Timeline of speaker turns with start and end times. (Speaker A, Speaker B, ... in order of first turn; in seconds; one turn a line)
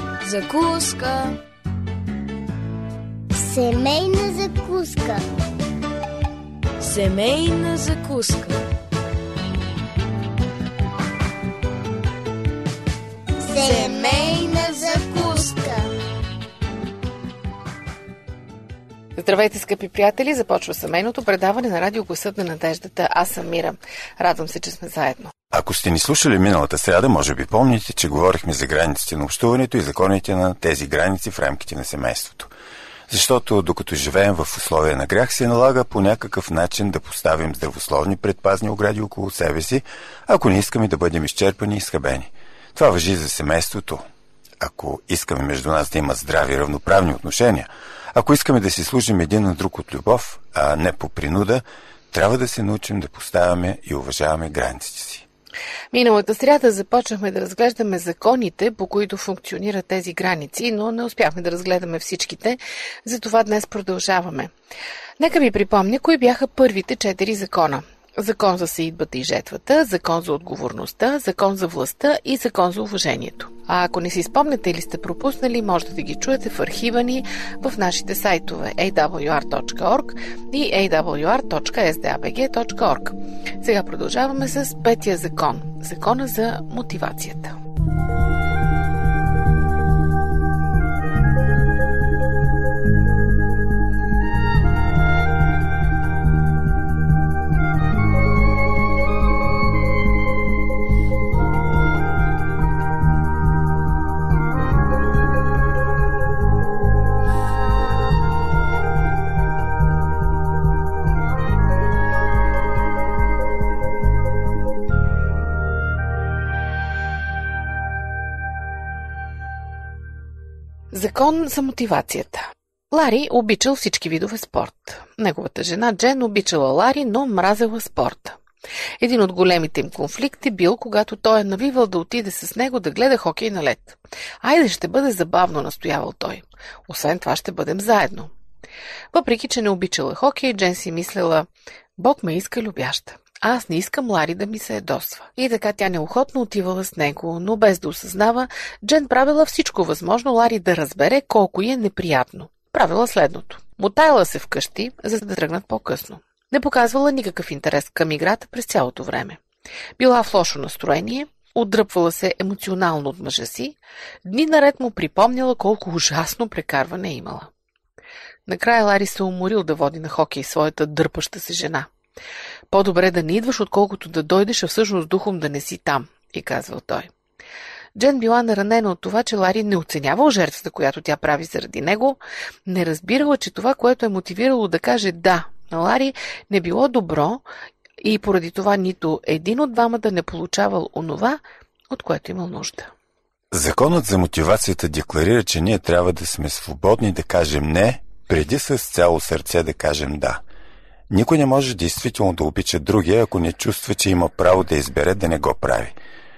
Speaker A: 0.2-1.4
Speaker B: 3.4-5.3
Speaker A: 6.8-8.6
Speaker B: 13.4-15.9
Speaker A: 13.6-15.5
Speaker C: 19.2-25.3
Speaker D: 25.5-32.5
Speaker D: 33.1-44.0
Speaker D: 44.6-55.3
Speaker C: 55.9-64.5
Speaker C: 65.2-87.5
Speaker C: 120.9-128.4
Speaker C: 129.0-138.3
Speaker C: 139.1-159.4
Speaker C: 160.0-167.5
Speaker C: 168.5-171.9
Speaker C: 172.7-177.1
Speaker C: 177.9-187.4
Speaker C: 188.0-192.9
Speaker D: 193.5-200.4
Speaker D: 201.1-206.0